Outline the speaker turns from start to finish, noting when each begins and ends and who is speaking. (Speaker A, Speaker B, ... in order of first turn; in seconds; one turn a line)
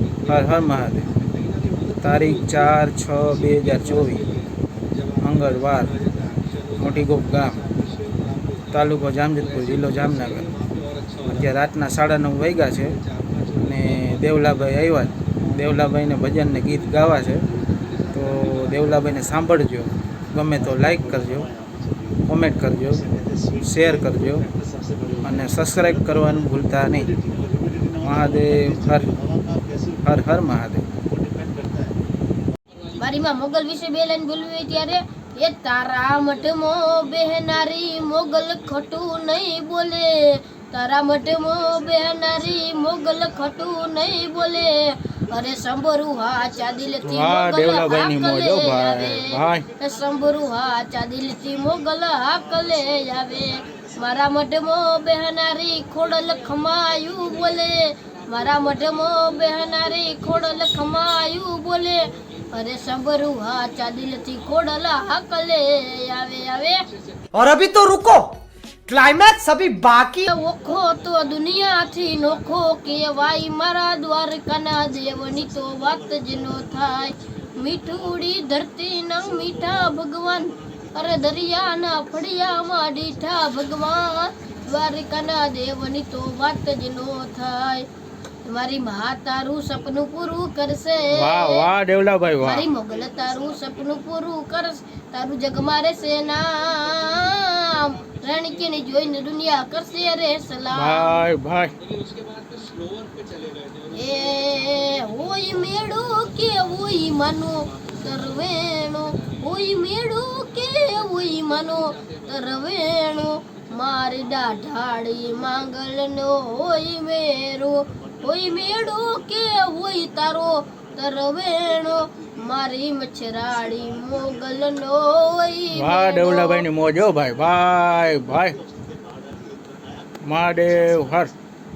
Speaker A: 0.3-1.2
Speaker A: 2.0-4.3
Speaker A: 5.2-6.0
Speaker A: 6.8-7.6
Speaker A: 8.7-10.5
Speaker A: 11.2-13.0
Speaker A: 13.6-17.5
Speaker A: 18.1-21.5
Speaker A: 22.3-23.1
Speaker A: 23.6-24.5
Speaker A: 25.2-27.1
Speaker A: 28.0-29.1
Speaker A: 30.0-30.9
Speaker B: 33.0-44.7
Speaker B: 45.3-66.8
Speaker A: 47.0-49.6
Speaker C: 67.3-70.3
Speaker B: 70.2-87.8
Speaker B: 88.5-91.7
Speaker A: 91.1-92.7
Speaker B: 92.4-101.2
Speaker A: 100.7-101.8
Speaker B: 103.9-126.7
Speaker A: 125.7-128.6
Speaker A: 130.3-131.3